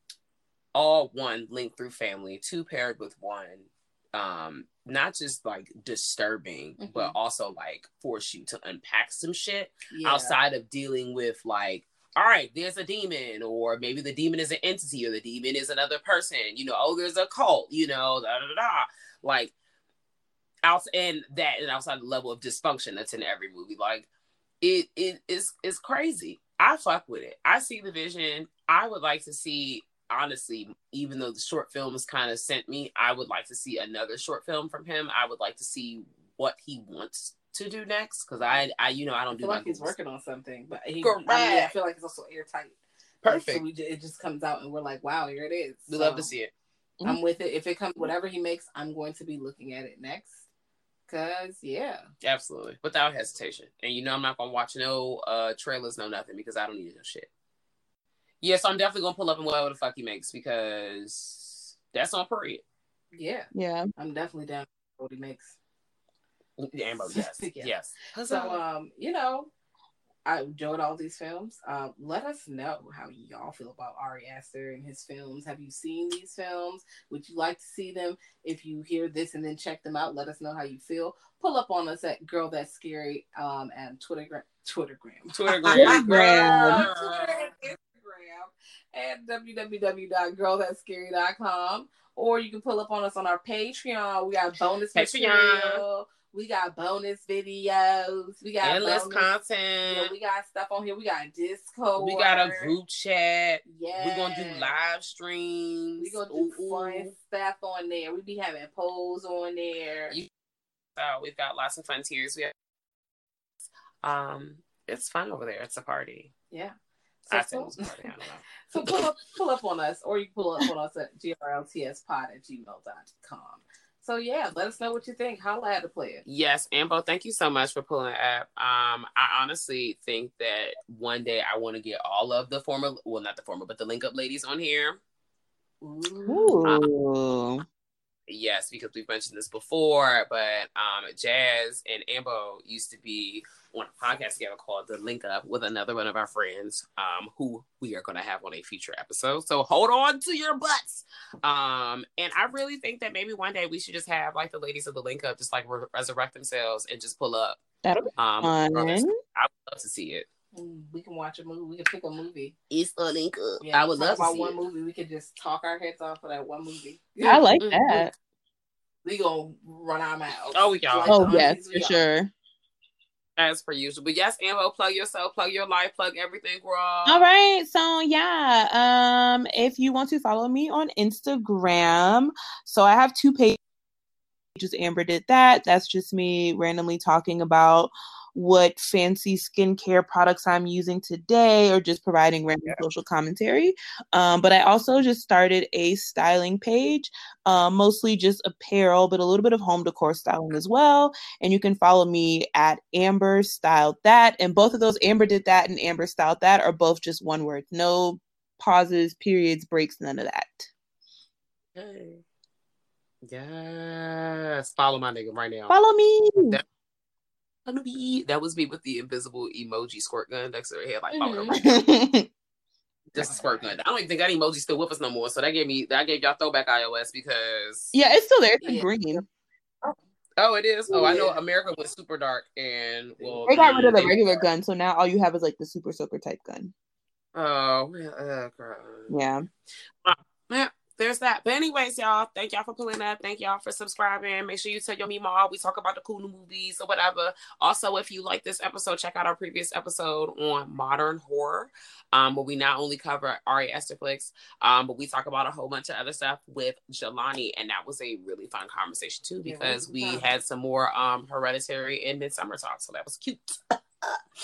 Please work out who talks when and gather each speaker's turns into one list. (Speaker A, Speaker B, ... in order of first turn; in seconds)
Speaker A: 0.7-19.5, 20.6-24.1, 24.6-39.9, 41.0-41.7, 43.2-43.6, 45.9-46.5, 52.2-57.3, 58.4-62.6, 66.6-68.6, 85.3-87.5, 95.0-95.8, 98.6-100.1, 102.0-107.1, 111.0-112.5, 114.0-116.3, 117.3-118.6, 126.2-135.0, 138.3-157.6, 158.2-160.3, 162.7-164.6, 167.6-168.1, 170.5-171.4, 173.4-177.3, 211.8-212.2, 213.2-215.7, 217.7-221.6, 223.1-227.9, 230.4-234.4, 237.3-239.2, 240.0-264.2
Speaker B: 6.8-7.2, 9.9-10.3, 39.4-46.3, 47.0-50.4, 51.1-52.0, 63.1-65.6, 67.1-67.7, 68.2-69.5, 70.3-99.3, 99.9-102.7, 103.7-104.8, 106.0-110.1, 117.3-117.9, 118.7-126.2, 135.8-136.6, 160.5-162.6, 163.6-167.5, 169.0-172.0, 221.1-221.6, 223.2-223.6, 228.6-229.2, 230.9-231.3, 259.4-260.3
Speaker C: 63.5-63.9, 85.7-86.8, 136.3-137.7, 157.8-159.2, 167.2-168.1, 171.1-172.3, 177.1-183.6, 184.6-210.7, 215.7-216.6, 221.6-222.3, 227.9-229.2, 230.9-231.3, 233.5-236.7, 239.1-239.4